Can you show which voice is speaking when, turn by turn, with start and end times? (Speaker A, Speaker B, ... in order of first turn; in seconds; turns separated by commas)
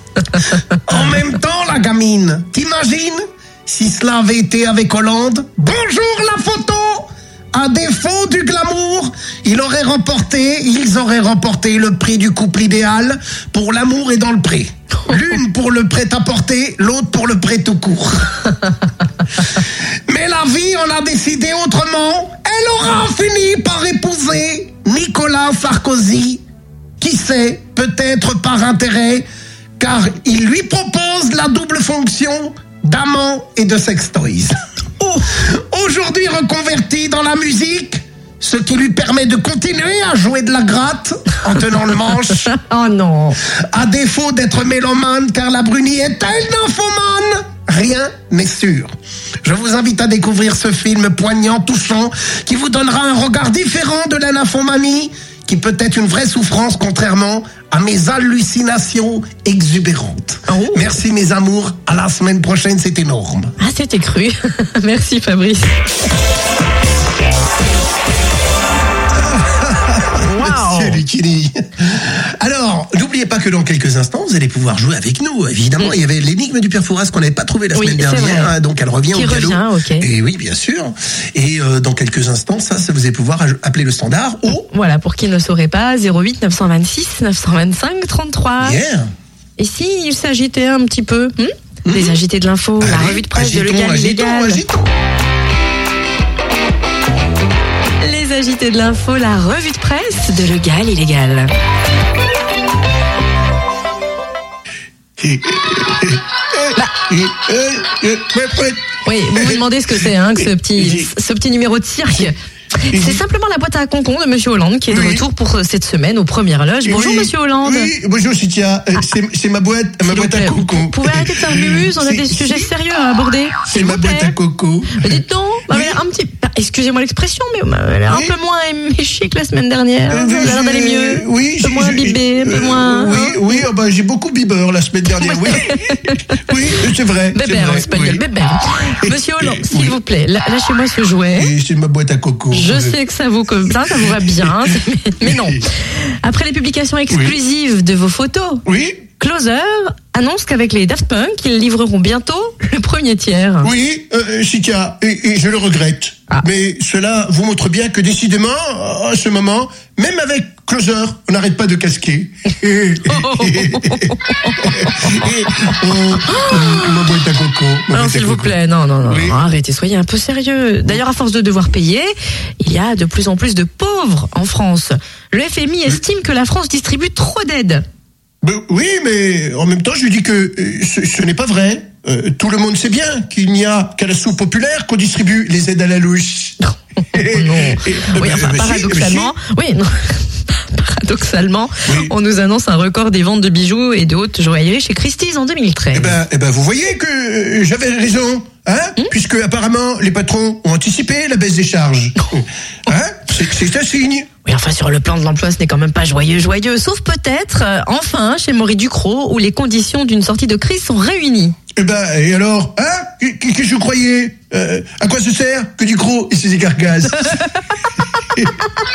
Speaker A: 0.9-18.5, Speaker A: 20.1-26.4, Speaker A: 27.0-29.3, Speaker A: 29.8-34.6, Speaker B: 35.0-35.3, Speaker A: 35.3-42.5, Speaker B: 42.5-43.4, Speaker A: 43.5-48.9, Speaker A: 49.4-63.5, Speaker B: 60.5-60.9, Speaker B: 63.6-65.8, Speaker A: 69.1-84.7, Speaker B: 70.2-71.0, Speaker B: 77.7-78.5, Speaker B: 79.1-80.1, Speaker B: 84.5-88.8, Speaker A: 88.6-89.1, Speaker B: 89.6-94.7, Speaker A: 91.8-92.2, Speaker A: 92.8-94.8, Speaker B: 98.0-101.5, Speaker A: 105.2-109.7, Speaker B: 109.0-117.9, Speaker A: 110.4-111.1, Speaker A: 112.9-113.2, Speaker A: 114.9-115.2, Speaker A: 116.8-122.7, Speaker B: 120.1-124.3, Speaker A: 123.7-126.0, Speaker B: 125.0-133.6, Speaker A: 128.1-128.3, Speaker A: 130.1-138.2, Speaker B: 135.2-136.5, Speaker B: 137.3-141.5, Speaker A: 138.9-140.0, Speaker A: 141.4-143.0, Speaker B: 142.5-148.7, Speaker A: 143.9-144.7, Speaker A: 145.2-145.6, Speaker A: 147.1-147.4, Speaker A: 148.7-149.0, Speaker B: 149.2-153.7, Speaker A: 153.6-169.4, Speaker B: 163.1-165.7, Speaker B: 166.2-167.0, Speaker B: 167.9-177.8, Speaker A: 178.4-186.6, Speaker A: 187.1-189.3, Speaker B: 187.1-196.2, Speaker A: 191.9-192.1, Speaker A: 195.9-204.3, Speaker B: 204.4-211.6, Speaker A: 211.8-217.4, Speaker A: 218.3-218.6